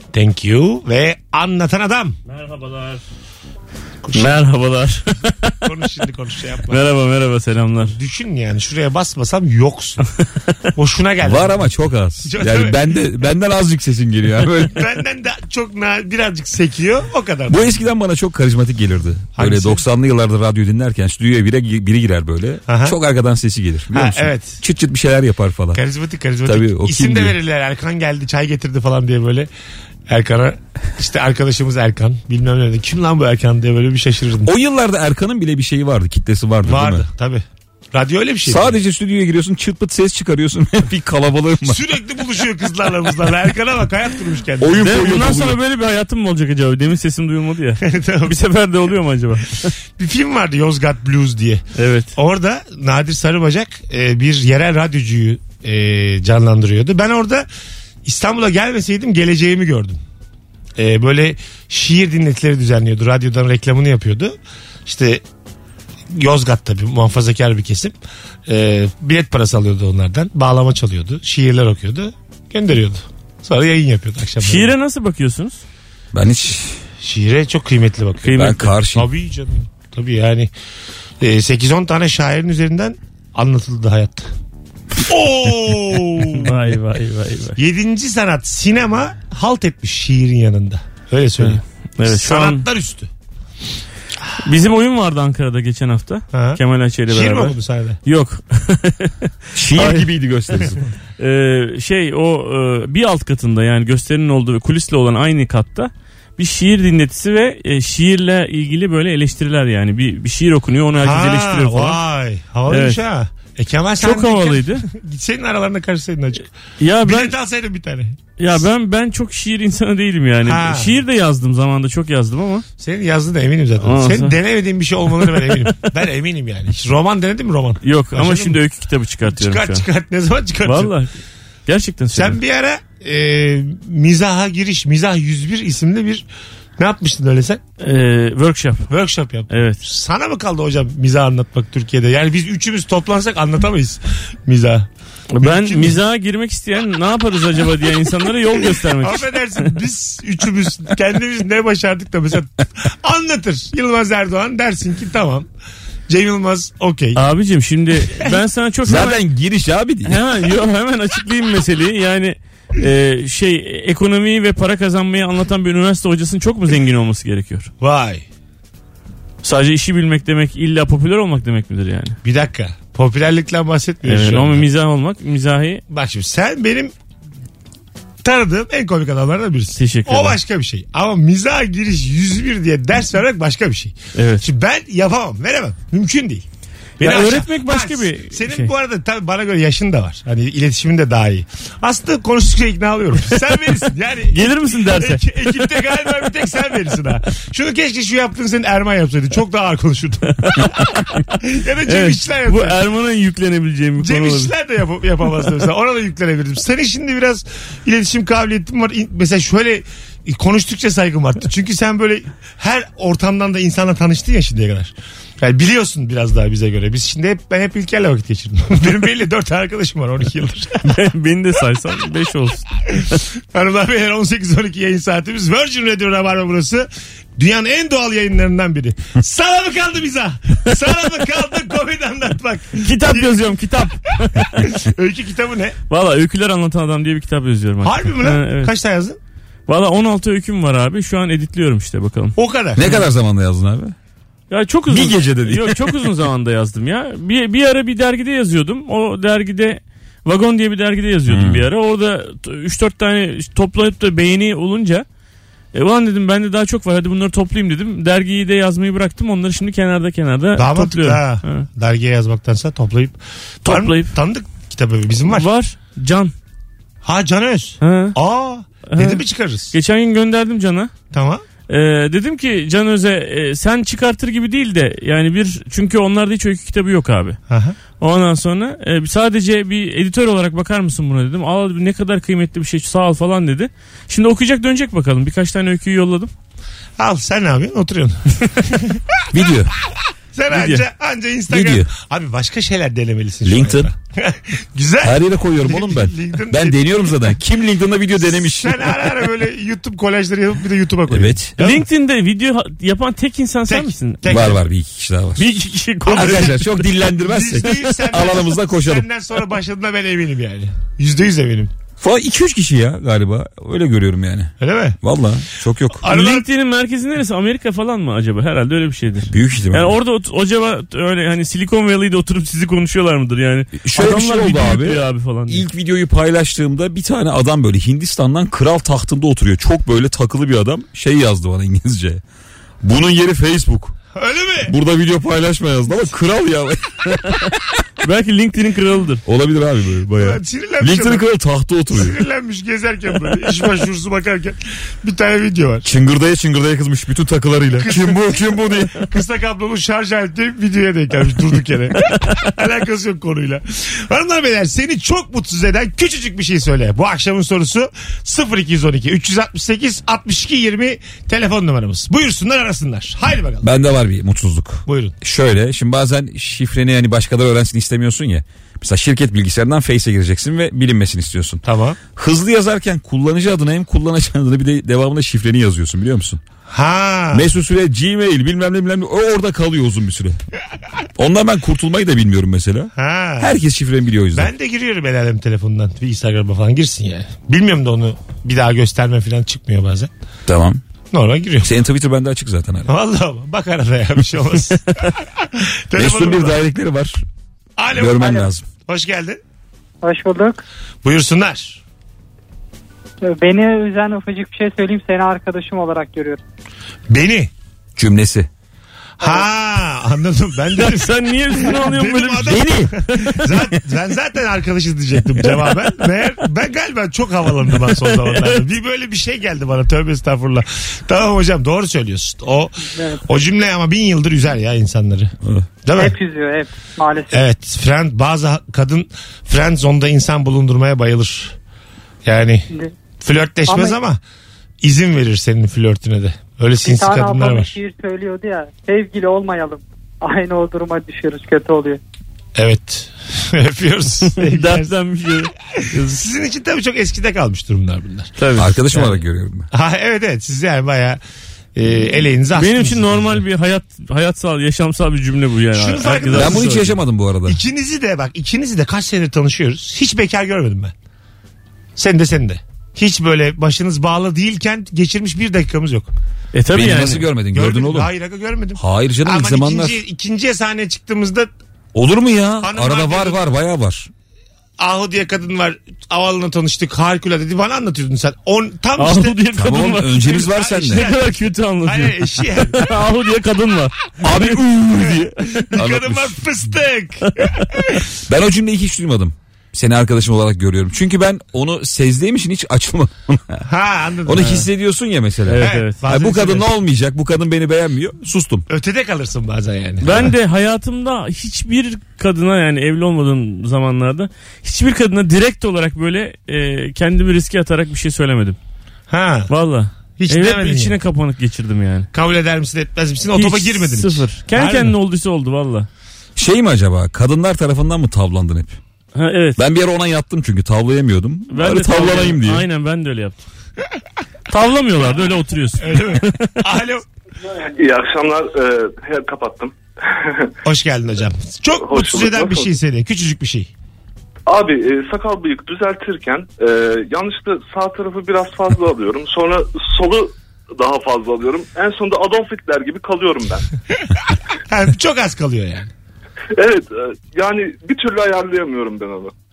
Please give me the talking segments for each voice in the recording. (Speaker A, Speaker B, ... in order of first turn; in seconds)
Speaker A: 0.1-2.1, 4.0-4.4, 5.6-6.8, 7.9-10.1, 10.8-11.7, 12.2-12.8, 14.7-17.8, 19.4-19.8, 22.7-23.0, 23.9-24.6, 25.7-29.5, 30.1-34.5, 36.6-38.7, 41.6-44.9, 47.8-48.3, 50.0-51.6, 52.1-57.5, 58.0-60.0, 60.8-64.3, 64.8-65.2, 66.1-67.9, 68.5-74.7, 77.0-80.5, 81.2-84.3, 85.0-86.5, 87.6-93.1, 96.3-98.0, 111.0-116.5, 117.0-118.2, 120.4-121.0, 122.8-128.6, 129.3-130.9, 132.1-136.2, 136.8-137.6, 138.9-144.9, 145.4-146.0, 149.0-155.5, 156.1-157.2, 167.8-168.2, 172.2-174.6, 175.9-176.9, 178.2-186.4, 187.0-202.8, 204.0-220.9, 223.5-233.4, 234.6-235.8, 237.8-239.2, 242.4-242.9, 260.6-265.5, 267.0-269.7, 271.1-271.4, 277.5-277.8, 287.0-289.0, 290.3-297.1, 298.3-301.8, 303.7-304.6, 306.1-311.7, 314.6-315.0, 316.0-316.5, 334.1-334.7, 340.1-341.2, 341.9-345.9, 347.8-363.7, 364.9-365.1, 371.6-372.0, 376.7-377.5, 382.9-383.6, 384.3-390.1, 391.1-391.7, 392.9-396.6, 397.8-399.4, 401.0-401.8, 407.1-407.5, 409.2-425.3, 425.8-426.2, 427.3-431.6, 432.2-432.7, 433.2-434.2, 434.8-437.7, 442.6-444.9, 445.7-448.3, 449.7-451.2, 451.8-453.4, 455.7-456.8, 457.4-460.9, 462.0-466.1, 467.5-471.5, 472.6-473.4, 474.8-482.9, 485.5-488.2, 493.6-494.6, 495.6-496.7, 498.7-500.3, 509.1-509.5, 510.2-511.0, 512.1-514.9, 525.8-527.0, 530.6-533.7, 544.7-545.9
Speaker B: 2.3-3.0, 4.1-5.6, 6.7-7.9, 44.8-49.7, 51.8-52.1, 74.4-75.6, 78.2-78.7, 86.2-87.6, 91.4-92.6, 94.4-97.5, 98.0-100.1, 101.2-112.0, 112.7-113.0, 114.0-114.8, 116.8-117.3, 118.4-122.6, 123.8-124.3, 125.2-125.9, 127.8-129.8, 130.6-131.1, 131.7-132.4, 137.8-138.9, 139.5-139.8, 145.3-149.6, 157.2-159.2, 160.0-167.7, 169.4-172.2, 174.0-175.8, 179.8-180.4, 184.1-184.4, 187.0-188.7, 194.3-195.7, 200.4-201.3, 201.8-204.5, 220.8-223.2, 232.8-234.8, 235.9-238.7, 239.7-242.3, 244.5-255.0, 255.7-261.6, 263.6-264.1, 265.3-266.3, 267.8-268.2, 268.9-270.9, 271.7-277.4, 278.0-286.3, 290.5-290.8, 301.6-304.2, 305.4-306.7, 316.0-325.7, 338.0-339.2, 410.7-412.6, 413.2-413.5, 417.9-418.6, 444.3-446.2, 448.4-449.1, 452.5-456.9, 466.5-467.3, 479.0-485.0, 495.4-496.0, 500.0-508.6, 509.5-512.1, 513.3-515.9, 519.1-519.6, 521.5-523.4, 524.5-526.6
Speaker C: 11.2-14.9, 17.5-25.8, 26.4-27.4, 34.5-37.0, 38.5-41.8, 44.6-45.6, 76.1-76.8, 78.3-79.0, 99.5-100.8, 158.8-160.2, 242.8-243.9, 244.9-245.9, 251.3-251.6, 289.3-289.7, 291.5-291.9, 293.4-293.9, 295.0-299.0, 301.1-301.5, 304.3-305.4, 306.1-309.0, 312.0-316.0, 319.3-319.9, 323.8-332.2, 332.8-333.9, 334.7-337.5, 339.2-342.2, 345.8-349.0, 363.6-371.6, 372.1-376.4, 377.3-380.4, 381.2-384.5, 390.5-390.8, 391.6-392.9, 395.9-397.2, 397.9-398.6, 407.9-408.5, 412.4-413.0, 448.6-449.7, 456.3-457.6, 466.7-468.1, 468.8-470.0, 471.9-474.1, 479.6-481.1, 484.2-486.4, 488.3-493.6, 494.2-498.6, 516.4-518.8, 519.6-522.6
Speaker D: 400.0-400.6, 403.2-406.4, 422.9-423.2, 426.0-427.4, 433.7-434.0, 436.8-442.0
Speaker E: 527.7-530.5, 531.8-532.7, 534.5-543.7, 546.5-549.3